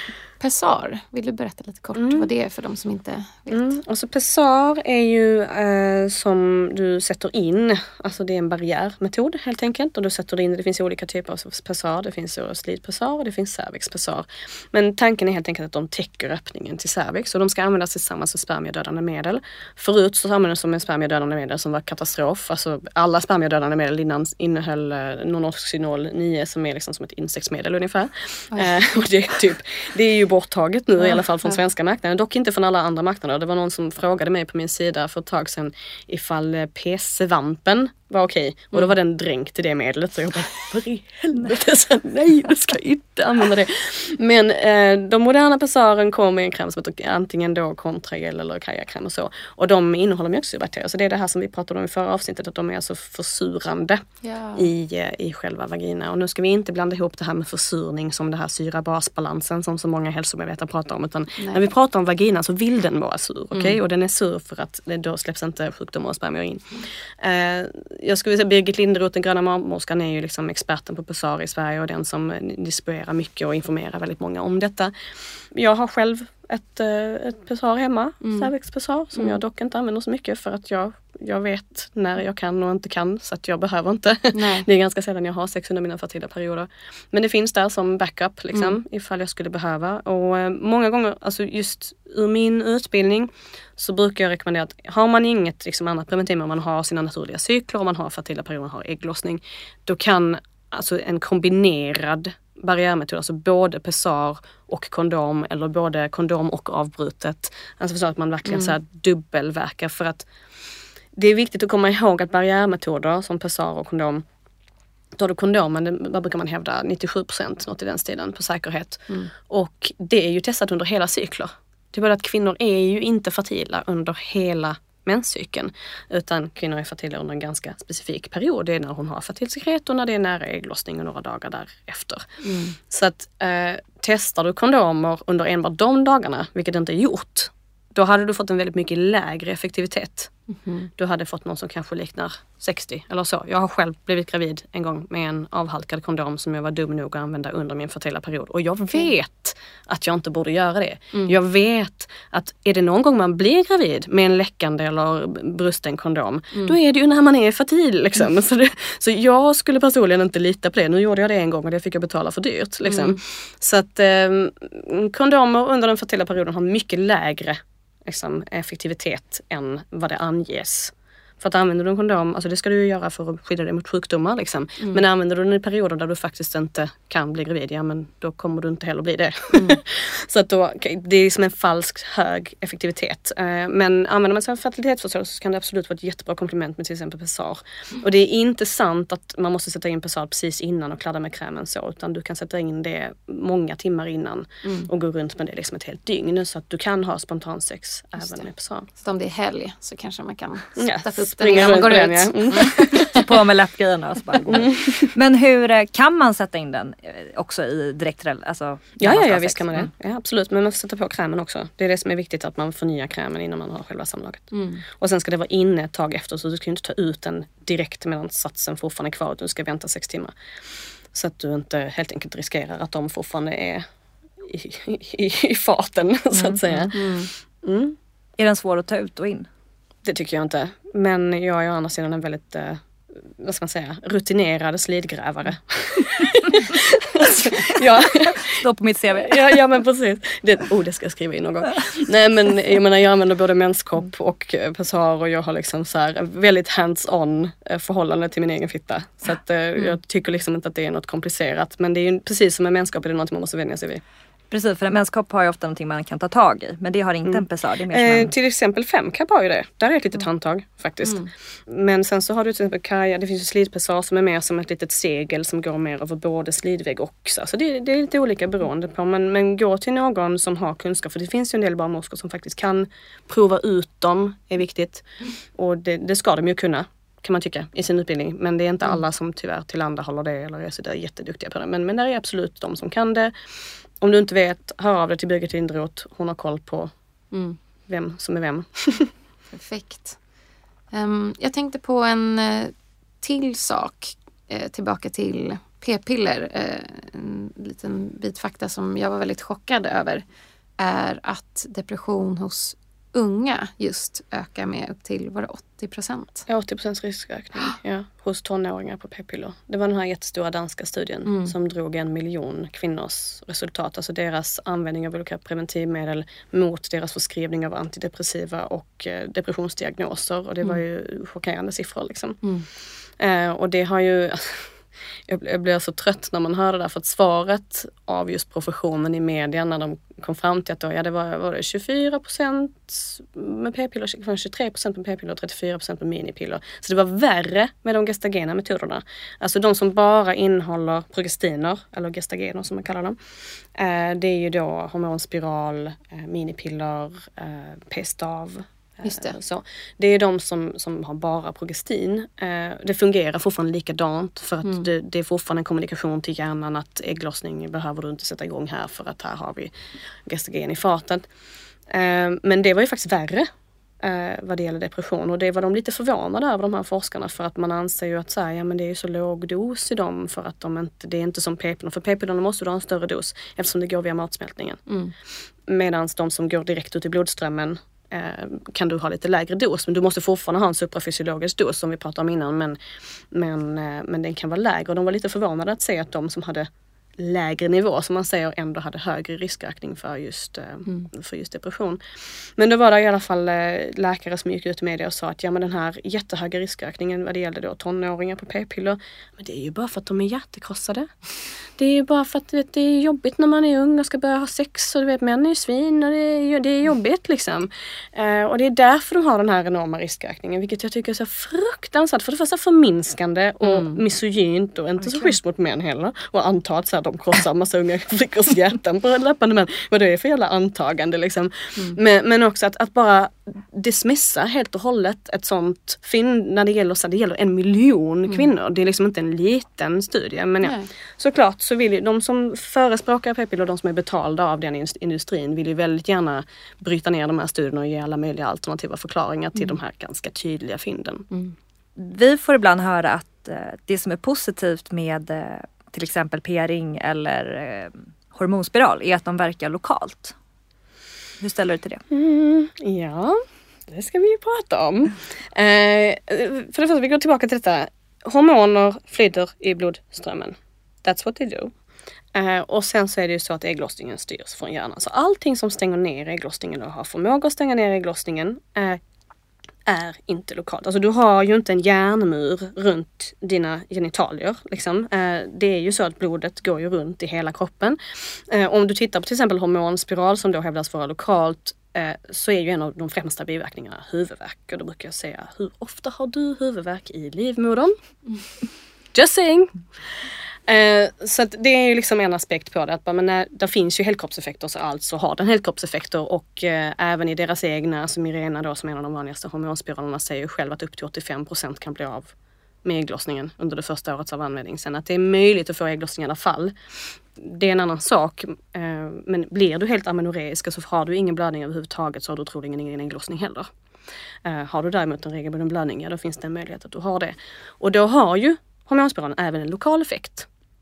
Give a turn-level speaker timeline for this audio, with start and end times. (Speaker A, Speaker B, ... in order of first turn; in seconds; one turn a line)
Speaker A: 0.4-3.8
Speaker B: 1.9-2.2
Speaker B: 3.5-54.0
Speaker A: 54.2-54.7
Speaker B: 54.5-74.9
Speaker A: 61.4-61.7
Speaker A: 63.5-63.8
Speaker B: 75.5-110.2
Speaker A: 78.2-78.5
Speaker A: 84.3-84.7
Speaker A: 108.5-108.7
Speaker B: 111.2-114.2
Speaker B: 115.2-132.3
Speaker A: 132.4-132.8
Speaker B: 132.9-140.3
Speaker A: 140.6-140.9
Speaker B: 141.0-198.9
Speaker A: 162.8-163.2
Speaker A: 179.5-179.8
Speaker A: 194.6-194.9
Speaker A: 198.9-203.2
Speaker B: 200.8-203.3
Speaker C: 202.9-209.9
Speaker B: 204.5-205.1
Speaker B: 209.0-220.3
Speaker A: 214.5-214.8
Speaker B: 221.1-223.8
Speaker B: 224.4-227.1
Speaker C: 226.3-226.8
Speaker A: 226.9-227.3
Speaker B: 227.6-227.9
Speaker C: 228.4-229.5
Speaker B: 230.0-232.8
Speaker B: 233.4-238.6
Speaker C: 237.6-239.5
Speaker B: 239.1-254.0
Speaker C: 254.5-258.3
Speaker B: 257.2-275.0
Speaker B: 275.6-283.3
Speaker B: 284.0-286.9
Speaker B: 287.9-289.1
Speaker A: 289.5-290.2
Speaker A: 290.9-300.2
Speaker A: 300.8-306.4
Speaker B: 306.5-322.4
Speaker A: 311.2-311.5
Speaker B: 323.2-324.7
Speaker B: 325.3-343.2
Speaker B: 343.7-359.7
Speaker A: 349.0-349.4
Speaker B: 360.2-361.2
Speaker B: 361.9-363.5
Speaker B: 364.0-374.8
Speaker A: 374.9-375.1
Speaker B: 375.7-382.8
Speaker B: 383.3-392.0
Speaker B: 392.6-401.1
Speaker B: 401.8-441.2
Speaker A: 413.6-414.0
Speaker A: 430.6-430.9
Speaker C: 442.0-450.3
Speaker C: 451.4-452.0
Speaker B: 452.1-461.7
Speaker B: 462.3-469.0
Speaker B: 469.9-487.9
Speaker B: 489.1-502.3
Speaker B: 502.8-506.7
Speaker B: 507.4-513.7
Speaker B: 514.4-520.5